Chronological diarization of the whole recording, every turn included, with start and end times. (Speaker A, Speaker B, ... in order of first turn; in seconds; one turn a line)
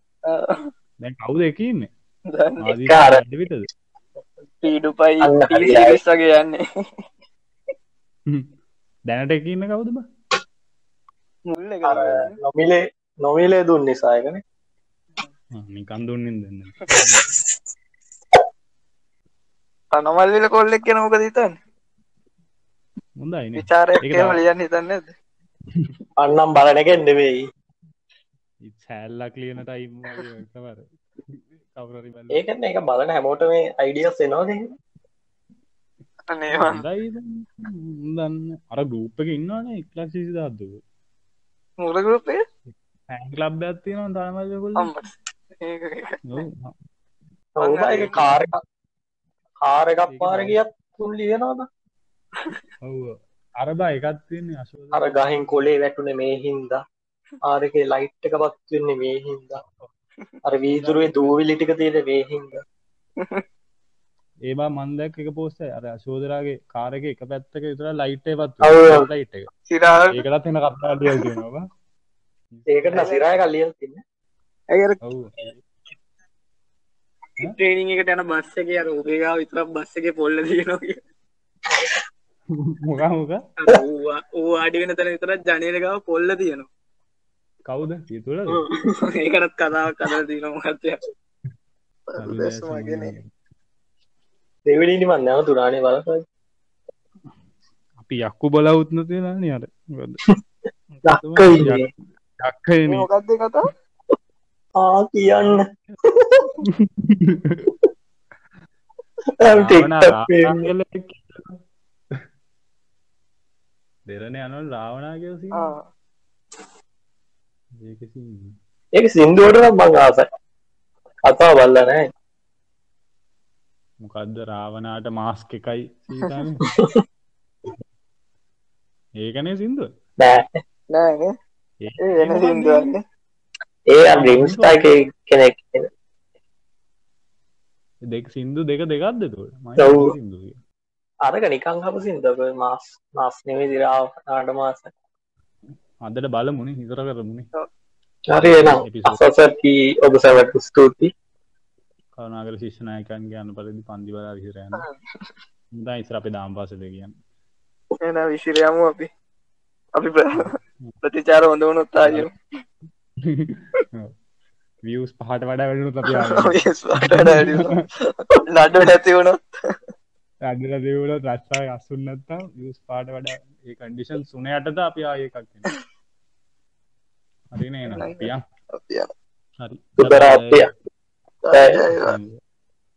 Speaker A: 0.3-0.7
Speaker B: 1.0-1.9
Speaker A: 2.3-2.8
Speaker B: 2.6-3.7
Speaker C: 2.8-3.2
Speaker A: 4.6-7.0
Speaker C: 5.2-6.0
Speaker B: 9.1-10.0
Speaker A: 11.5-12.4
Speaker C: 11.8-14.4
Speaker B: 15.6-17.2
Speaker A: 19.9-21.6
Speaker B: 23.2-24.4
Speaker A: 23.6-25.1
Speaker C: 26.2-27.4
Speaker B: 28.7-32.4
Speaker C: 32.3-34.7
Speaker A: 36.3-36.9
Speaker B: 36.5-40.8
Speaker A: 41.8-42.4
Speaker B: 43.1-44.9
Speaker A: 44.8-46.5
Speaker B: 46.3-46.7
Speaker C: 47.6-48.5
Speaker A: 47.6-48.3
Speaker B: 48.2-48.5
Speaker C: 49.7-51.7
Speaker B: 50.1-50.6
Speaker B: 52.8-55.6
Speaker C: 54.9-56.8
Speaker C: 57.5-59.6
Speaker C: 60.5-62.6
Speaker B: 60.6-61.4
Speaker B: 64.5-69.5
Speaker C: 68.6-69.0
Speaker A: 69.7-70.2
Speaker B: 70.1-71.6
Speaker B: 72.5-73.1
Speaker C: 72.7-74.0
Speaker A: 73.0-73.2
Speaker A: 74.7-75.0
Speaker B: 75.0-75.6
Speaker A: 77.4-81.0
Speaker B: 82.8-83.4
Speaker A: 83.6-86.7
Speaker B: 87.7-88.6
Speaker A: 89.0-91.0
Speaker A: 92.1-93.1
Speaker B: 92.2-93.2
Speaker C: 94.7-96.2
Speaker B: 98.0-100.2
Speaker B: 100.9-101.9
Speaker C: 101.1-101.9
Speaker B: 102.4-103.1
Speaker A: 102.9-103.7
Speaker C: 104.8-105.6
Speaker B: 105.2-106.0
Speaker B: 106.7-107.7
Speaker C: 109.4-110.6
Speaker B: 109.5-111.5
Speaker B: 114.1-115.7
Speaker A: 115.5-115.9
Speaker B: 117.8-118.5
Speaker C: 119.0-120.3
Speaker C: 121.3-122.0
Speaker B: 124.0-126.6
Speaker B: 129.2-129.9
Speaker C: 130.2-130.4
Speaker A: 130.9-131.3
Speaker B: 131.8-132.9
Speaker A: 132.0-133.0
Speaker C: 133.9-135.9
Speaker B: 134.2-134.8
Speaker B: 138.1-140.6
Speaker C: 139.8-140.1
Speaker C: 141.2-144.9
Speaker B: 146.0-147.5
Speaker C: 148.3-151.1
Speaker B: 148.4-149.2
Speaker B: 152.2-154.8
Speaker A: 154.8-155.3
Speaker B: 155.8-157.1
Speaker A: 158.0-159.1
Speaker A: 159.9-162.3
Speaker B: 160.4-160.9
Speaker B: 163.3-164.1
Speaker B: 164.8-167.7
Speaker A: 166.1-167.7
Speaker A: 168.5-169.7
Speaker B: 170.5-175.7
Speaker B: 177.5-178.4
Speaker A: 177.9-179.1
Speaker B: 179.6-180.6
Speaker C: 180.0-180.7
Speaker A: 181.4-182.2
Speaker C: 181.5-181.8
Speaker B: 181.9-182.4